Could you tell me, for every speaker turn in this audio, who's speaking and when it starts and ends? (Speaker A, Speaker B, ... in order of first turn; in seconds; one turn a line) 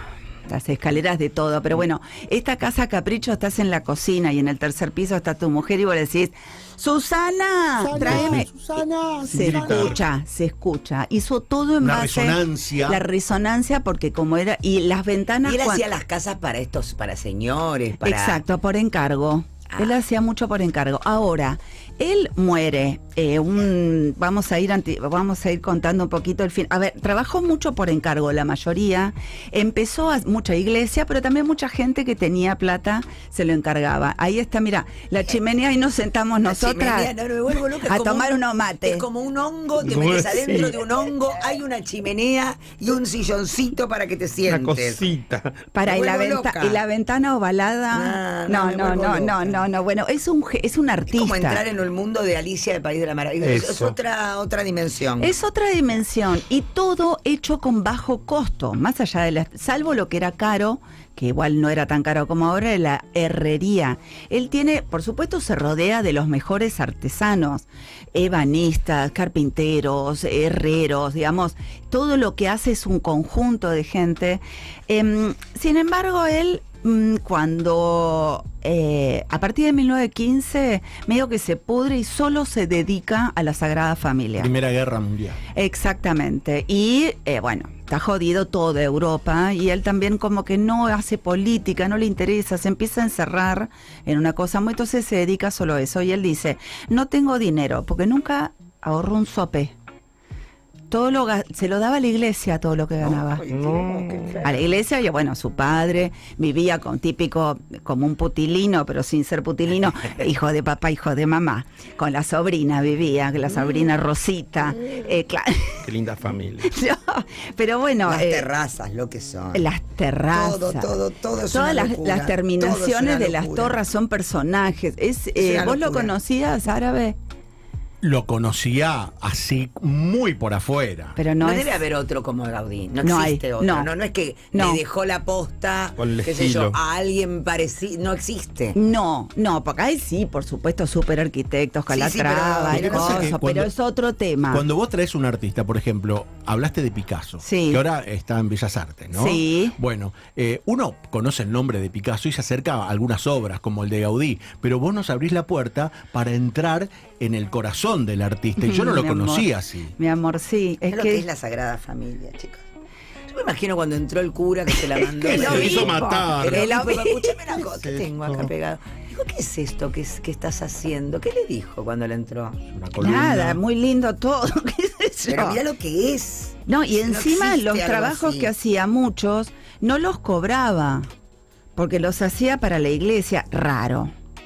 Speaker A: 0.5-8.5
Speaker B: 7.8-10.0
Speaker A: 9.2-15.8
Speaker C: 9.3-9.9
Speaker B: 11.8-13.0
Speaker D: 15.4-18.4
Speaker A: 18.0-37.1
Speaker D: 36.5-45.0
Speaker A: 37.8-39.0
Speaker C: 39.8-40.8
Speaker C: 44.5-45.7
Speaker A: 45.7-51.6
Speaker D: 45.8-46.8
Speaker D: 47.9-49.6
Speaker D: 51.1-55.3
Speaker C: 53.4-54.0
Speaker A: 55.2-84.5
Speaker B: 84.4-85.4
Speaker A: 85.5-99.7
Speaker A: 100.9-103.4
Speaker D: 103.0-104.7
Speaker C: 103.5-104.4
Speaker A: 104.4-115.8
Speaker C: 115.8-116.7
Speaker A: 116.6-118.5
Speaker D: 118.0-119.6
Speaker A: 119.5-120.9
Speaker D: 120.3-123.7
Speaker A: 121.5-127.2
Speaker D: 125.4-126.1
Speaker B: 128.0-131.2
Speaker A: 131.2-131.8
Speaker D: 131.4-138.8
Speaker A: 133.0-133.9
Speaker A: 134.5-134.8
Speaker C: 136.0-136.8
Speaker A: 138.7-144.6
Speaker D: 141.9-143.3
Speaker B: 142.7-143.7
Speaker B: 144.5-159.9
Speaker A: 147.4-147.8
Speaker A: 149.1-149.8
Speaker A: 158.6-161.2
Speaker D: 160.9-162.6
Speaker D: 163.3-172.6
Speaker A: 164.9-167.4
Speaker C: 165.3-166.7
Speaker B: 167.5-168.5
Speaker B: 172.7-173.6
Speaker A: 173.0-175.6
Speaker D: 175.3-178.5
Speaker A: 176.7-181.1
Speaker A: 181.8-184.1